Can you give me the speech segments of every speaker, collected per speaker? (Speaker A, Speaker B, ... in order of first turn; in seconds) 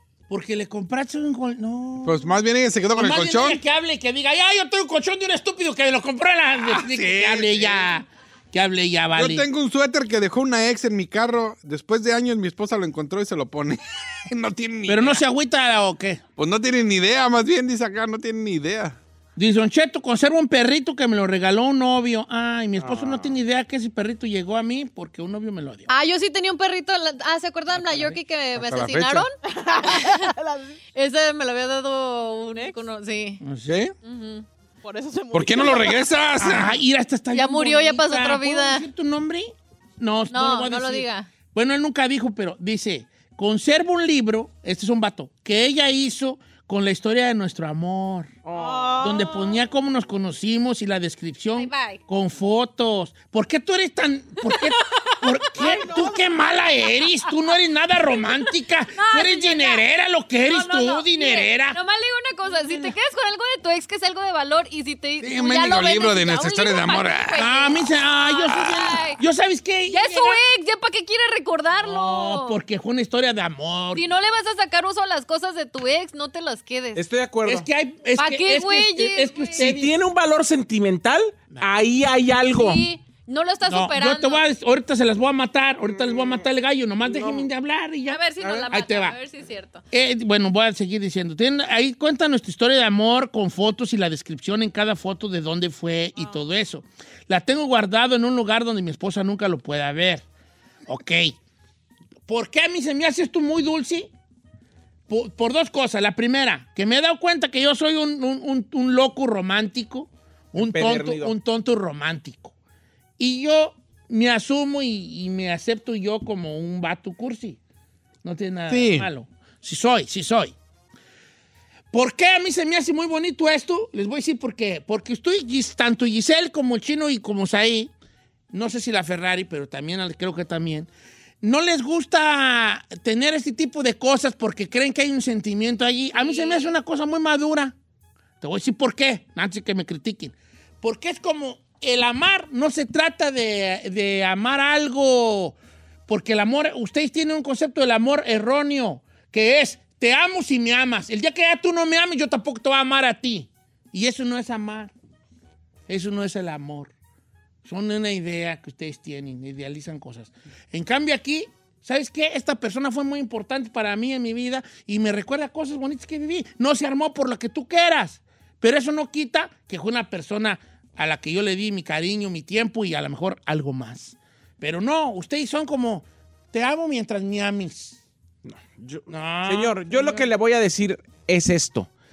Speaker A: 0.3-2.3, 2.9-9.4, 14.9-16.2, 19.4-25.9, 27.8-28.1, 33.4-33.8, 36.4-48.3, 49.0-61.8, 67.3-70.4, 71.8-74.0, 77.5-79.9, 83.7-89.2, 89.9-100.2, 100.9-101.3, 102.3-104.1, 105.1-112.5, 113.2-117.6, 118.2-120.5, 121.9-127.9, 128.5-130.9, 131.4-137.7, 138.4-145.6, 146.1-154.9, 155.9-156.9, 157.6-178.0, 179.1-180.2
Speaker B: 2.0-3.6, 6.6-8.0, 9.1-15.2, 16.4-19.0, 28.5-29.3, 33.6-33.9, 35.3-36.8, 65.2-67.5, 118.7-119.1
Speaker C: 22.8-23.3, 48.4-49.1, 77.0-77.7, 79.5-82.8, 85.9-86.4, 87.0-87.5, 88.4-88.7, 110.6-111.3, 178.4-181.9
Speaker D: 25.9-30.3, 30.9-33.4, 34.0-34.4, 37.3-38.8, 40.3-41.3, 51.5-52.0, 59.0-59.8, 60.5-69.2, 69.9-72.6, 73.9-77.0, 78.2-79.7, 82.5-84.5, 88.1-89.8, 136.1-136.7
Speaker E: 29.4-30.8, 34.8-36.1, 48.5-49.6, 55.5-56.8, 62.5-62.9, 96.2-96.4